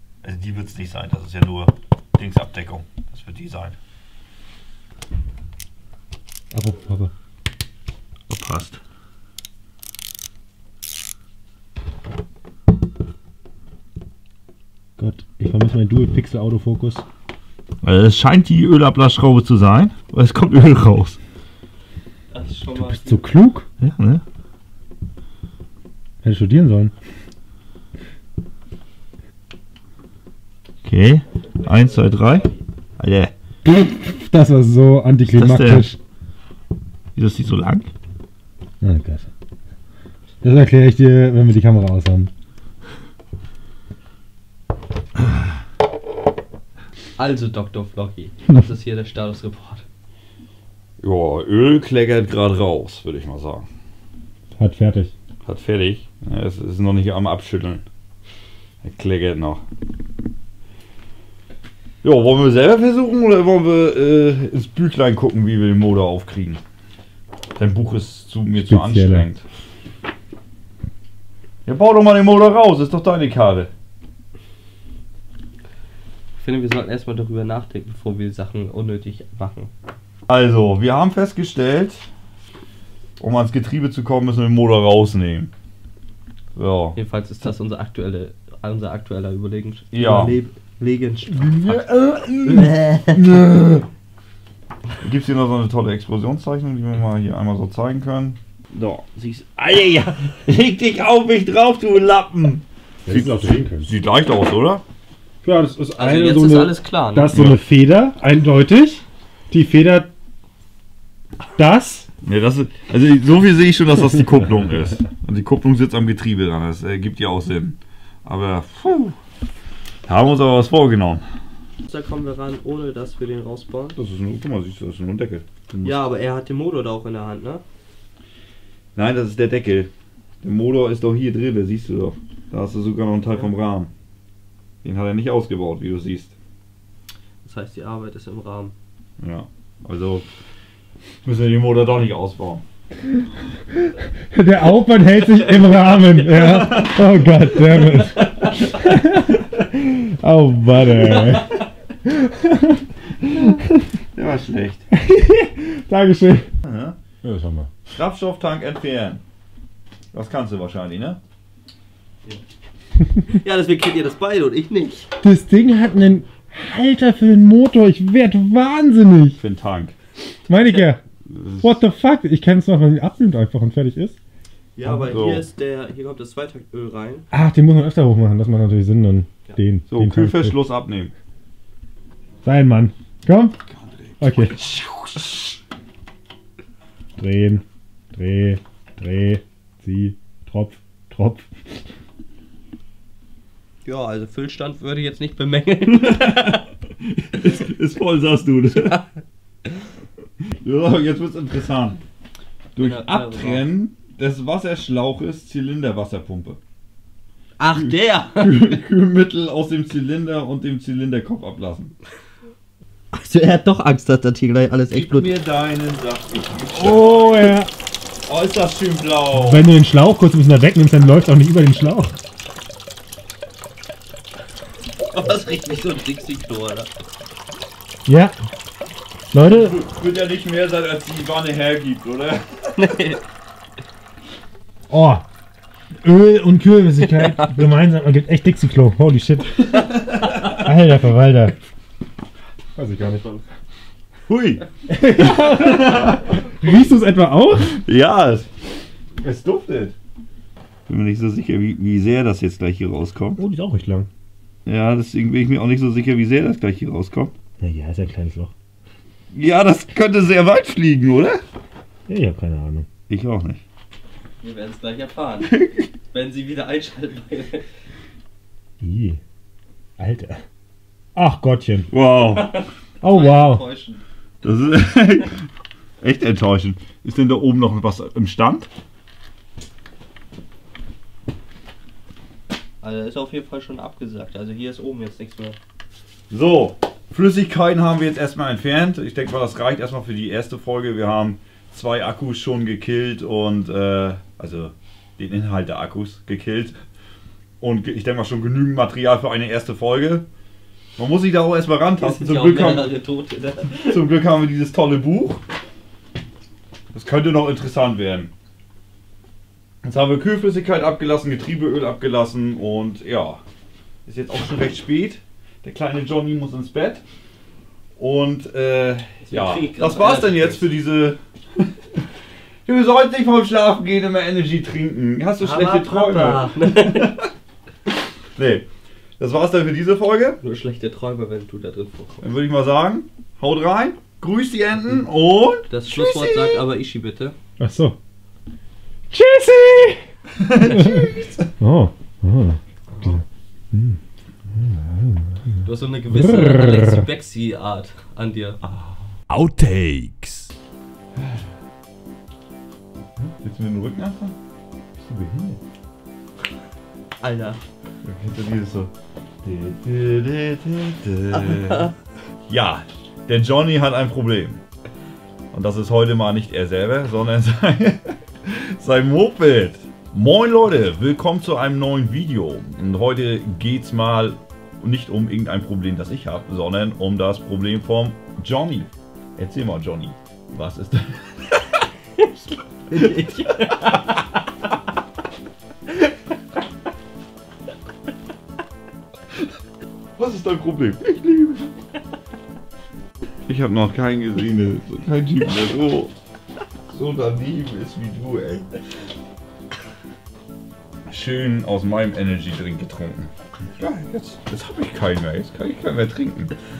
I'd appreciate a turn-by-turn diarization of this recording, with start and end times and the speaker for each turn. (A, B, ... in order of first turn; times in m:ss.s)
0:00.2-0:03.8 A
0:06.5-0:07.1 B
0:08.3-0:08.8 A
0:15.0-0:17.0 B
0:17.8-0:21.2 A
0:22.3-0:23.3 C
0:22.7-0:23.7 B
0:23.8-0:24.2 A
0:26.2-0:26.9 B
0:30.8-0:32.5 A
0:31.4-0:32.6 C
0:33.0-0:33.3 A
0:33.7-0:36.0 B
0:35.2-0:35.9 A
0:37.1-0:37.9 A
0:38.8-0:39.3 B
0:40.4-0:42.3 B
0:47.2-0:49.8 C
0:51.0-0:53.7 A
0:54.6-0:55.1 B
0:55.4-0:57.8 A
0:58.8-0:59.6 A
1:02.0-1:06.6 A
1:07.6-1:09.4 A
1:08.5-1:09.3 B
1:11.6-1:13.7 A
1:16.4-1:19.7 C
1:20.3-1:22.1 A
1:23.2-1:25.5 A
1:26.6-1:27.0 A
1:26.9-1:31.8 C
1:29.9-1:30.4 A
1:31.3-1:33.8 A
1:32.4-1:33.3 C
1:35.0-1:44.8 A
1:43.0-1:43.9 B
1:45.4-1:50.1 B
1:46.0-1:47.4 C
1:47.3-1:47.6 A
1:51.6-1:52.1 B
1:52.2-1:59.2 A
2:00.0-2:01.2 A
2:01.9-2:04.0 C
2:04.0-2:06.1 A
2:05.8-2:07.6 C
2:09.0-2:09.9 A
2:10.4-2:13.9 A
2:14.8-2:16.3 A
2:17.4-2:18.7 C
2:19.2-2:20.2 A
2:21.2-2:22.6 A
2:23.9-2:33.7 B
2:26.3-2:27.3 A
2:30.9-2:31.6 C
2:33.3-2:33.6 A
2:34.1-2:34.8 A
2:34.9-2:36.5 B
2:36.6-2:37.0 A
2:37.2-2:37.7 B
2:37.9-2:39.2 A
2:40.1-2:41.2 A
2:43.3-2:45.1 C
2:45.2-2:49.4 B
2:49.3-2:50.0 A
2:50.5-2:51.0 B
2:50.5-2:50.8 C
2:51.3-2:51.8 A
2:51.6-2:54.2 B
2:54.8-2:57.3 C
2:54.8-2:55.5 A
2:57.3-3:00.5 B
2:59.9-3:01.1 A
3:02.4-3:03.6 B
3:03.7-3:05.6 A
3:04.2-3:04.6 B
3:07.2-3:11.5 B
3:13.8-3:16.7 C
3:15.9-3:19.0 A
3:18.7-3:19.1 C
3:20.4-3:22.0 A
3:22.7-3:26.6 A
3:22.8-3:23.6 C
3:27.6-3:28.8 C
3:27.7-3:31.9 A
3:33.1-3:35.3 C
3:34.9-3:37.6 A
3:36.7-3:37.7 B
3:38.3-3:39.7 A
3:39.3-3:42.2 B
3:45.1-3:46.9 C
3:48.0-3:48.4 B
3:49.3-3:49.8 B
3:49.4-3:52.9 A
3:52.8-3:53.2 C
3:54.9-3:55.2 B
3:56.0-3:59.9 B
3:57.0-3:57.6 C
3:59.7-4:00.6 A
4:00.5-4:01.6 B
4:02.8-4:03.2 B
4:03.2-4:03.4 C
4:04.3-4:06.6 A
4:04.9-4:07.8 B
4:07.6-4:08.5 A
4:09.2-4:10.0 A
4:10.9-4:13.4 A
4:13.4-4:14.1 B
4:14.6-4:17.3 A
4:17.6-4:18.5 B
4:19.3-4:21.4 A
4:22.1-4:22.9 B
4:23.1-4:23.6 A
4:24.4-4:27.6 C
4:25.4-4:25.9 A
4:28.8-4:29.2 B
4:30.0-4:30.4 B
4:31.2-4:31.9 B
4:31.9-4:32.5 A
4:32.3-4:34.0 C
4:33.0-4:33.6 B
4:34.4-4:35.4 A
4:36.0-4:38.7 A
4:42.8-4:45.6 C
4:46.3-4:56.8 A
4:57.6-5:00.3 A
5:01.0-5:03.0 A
5:02.0-5:04.1 C
5:03.8-5:05.4 A
5:06.9-5:08.3 A
5:09.8-5:13.4 A
5:14.0-5:17.0 A
5:18.0-5:22.0 A
5:19.2-5:20.7 C
5:22.6-5:27.3 A
5:25.4-5:27.2 C
5:28.4-5:28.6 A
5:29.2-5:30.4 A
5:30.4-5:32.3 C
5:32.2-5:35.7 A
5:35.7-5:37.4 C
5:37.6-5:38.0 B
5:39.1-5:40.0 B
5:40.4-5:41.5 A
5:40.6-5:41.2 C
5:40.6-5:44.0 B
5:42.9-5:43.2 C
5:44.5-5:47.0 B
5:45.6-5:48.6 C
5:48.6-5:50.5 A
5:51.2-5:51.4 A
5:53.2-5:54.4 A
5:54.9-5:55.6 A
5:57.2-5:57.6 C
5:58.0-5:58.9 A
5:59.4-6:01.9 A
6:02.5-6:04.6 A
6:05.5-6:21.8 A
6:22.9-6:24.2 C
6:22.9-6:23.2 A
6:30.2-6:31.7 A
6:33.4-6:36.1 A
6:36.9-6:38.7 A
6:41.1-6:46.5 A